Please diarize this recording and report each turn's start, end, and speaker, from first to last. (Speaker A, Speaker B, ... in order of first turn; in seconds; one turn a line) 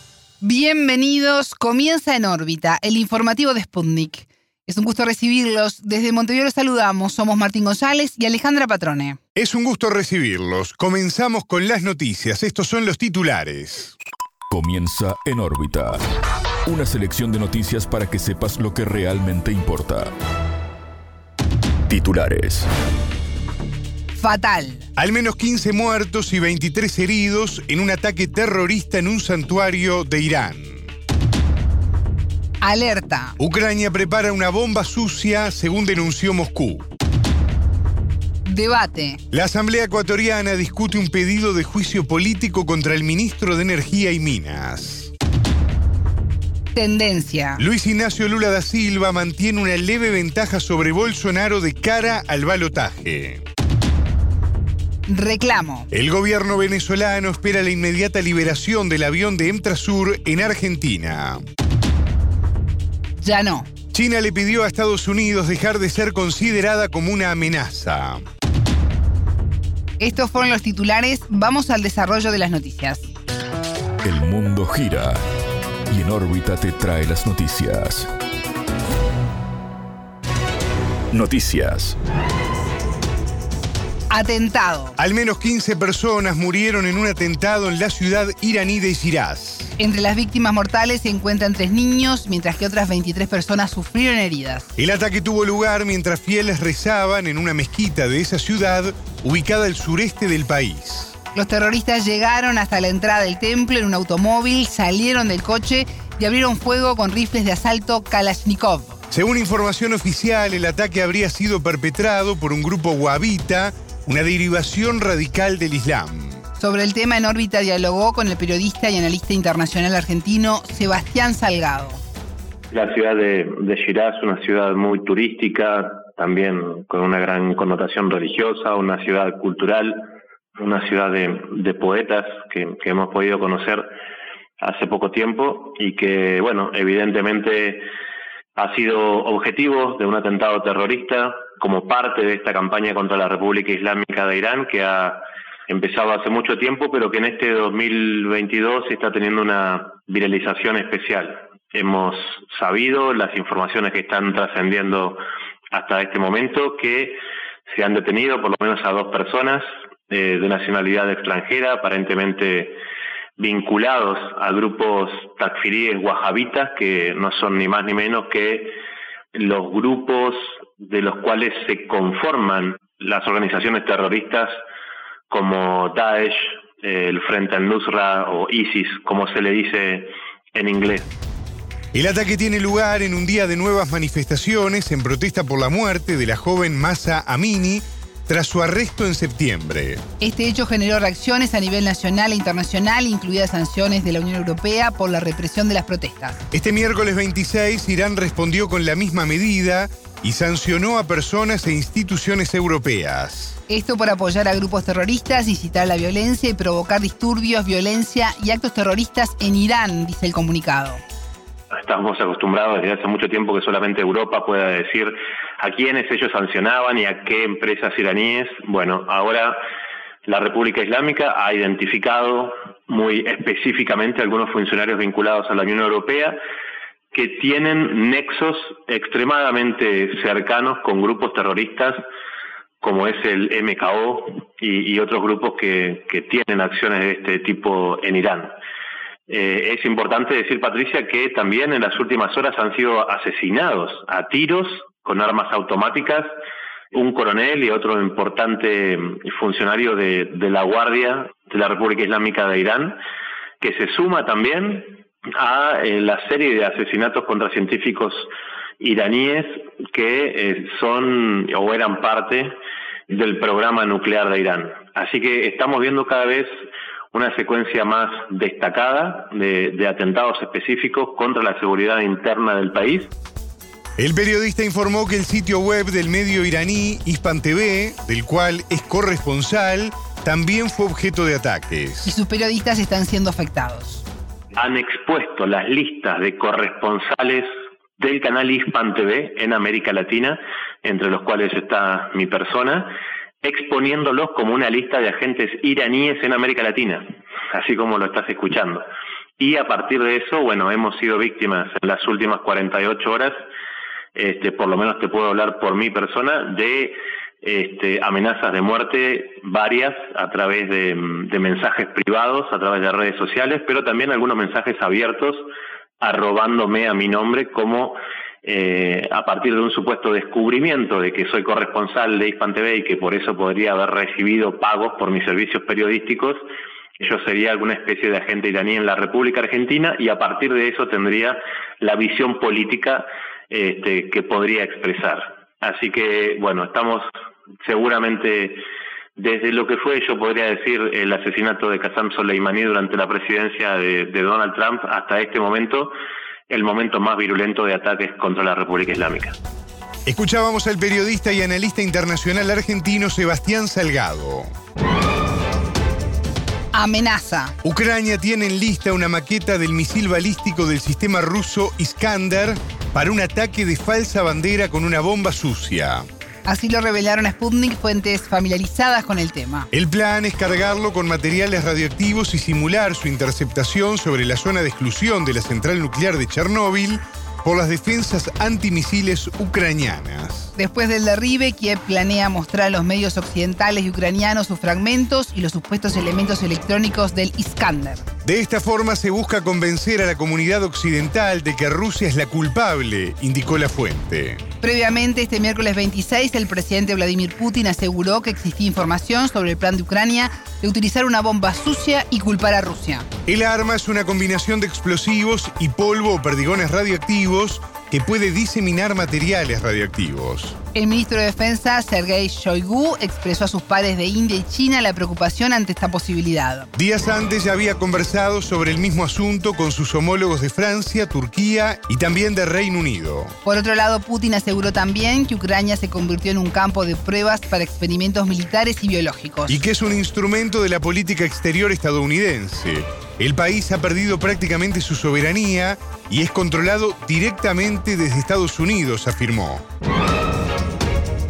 Speaker A: 0.4-9.2
Speaker B: 9.4-13.9
Speaker C: 14.5-16.0
Speaker C: 16.7-20.1
Speaker C: 21.9-22.7
Speaker A: 24.2-24.9
Speaker B: 25.0-30.9
Speaker A: 32.6-33.4
Speaker B: 33.4-36.9
Speaker A: 38.5-39.2
Speaker B: 39.3-45.1
Speaker A: 46.8-47.6
Speaker B: 47.6-53.4
Speaker A: 55.1-55.9
Speaker B: 55.9-61.4
Speaker A: 63.2-63.7
Speaker B: 63.9-68.2
Speaker A: 70.0-73.1
Speaker C: 74.0-75.2
Speaker C: 75.9-78.1
Speaker C: 81.1-82.0
Speaker A: 84.1-85.0
Speaker B: 85.0-89.7
Speaker A: 89.8-94.7
Speaker B: 94.8-101.1
Speaker A: 101.3-109.0
Speaker B: 109.1-116.4
Speaker A: 116.6-122.0
Speaker D: 122.7-133.9
Speaker D: 134.6-137.9
Speaker D: 138.6-155.2
Speaker D: 155.7-162.8
Speaker D: 163.4-168.7
Speaker D: 169.3-174.6
Speaker D: 175.3-181.1
Speaker B: 181.9-190.0
Speaker A: 190.2-196.4
Speaker B: 196.5-203.6
Speaker A: 203.7-211.0
Speaker D: 211.7-219.6
Speaker D: 220.2-226.4
Speaker D: 227.1-232.0
Speaker D: 232.8-238.6
Speaker D: 239.3-246.3
Speaker D: 246.9-253.0
Speaker D: 253.6-262.5
Speaker D: 263.1-266.5
Speaker D: 267.1-273.1
Speaker B: 274.0-282.1
Speaker A: 282.1-284.0
Speaker D: 284.6-287.5
Speaker D: 288.0-298.9
Speaker D: 299.4-303.4
Speaker D: 304.1-315.5
Speaker D: 316.0-326.4
Speaker D: 327.0-337.1
Speaker D: 337.6-338.6
Speaker D: 339.2-345.9
Speaker D: 346.5-349.4
Speaker B: 350.1-354.5
Speaker A: 356.7-357.6
Speaker B: 357.6-366.1
Speaker A: 366.5-369.7
Speaker B: 369.7-380.5
Speaker A: 380.6-388.1
Speaker B: 388.2-394.4
Speaker A: 394.6-403.1
Speaker B: 403.3-410.6
Speaker A: 410.7-416.7
Speaker B: 416.8-423.4
Speaker A: 423.4-429.6
Speaker B: 429.5-439.6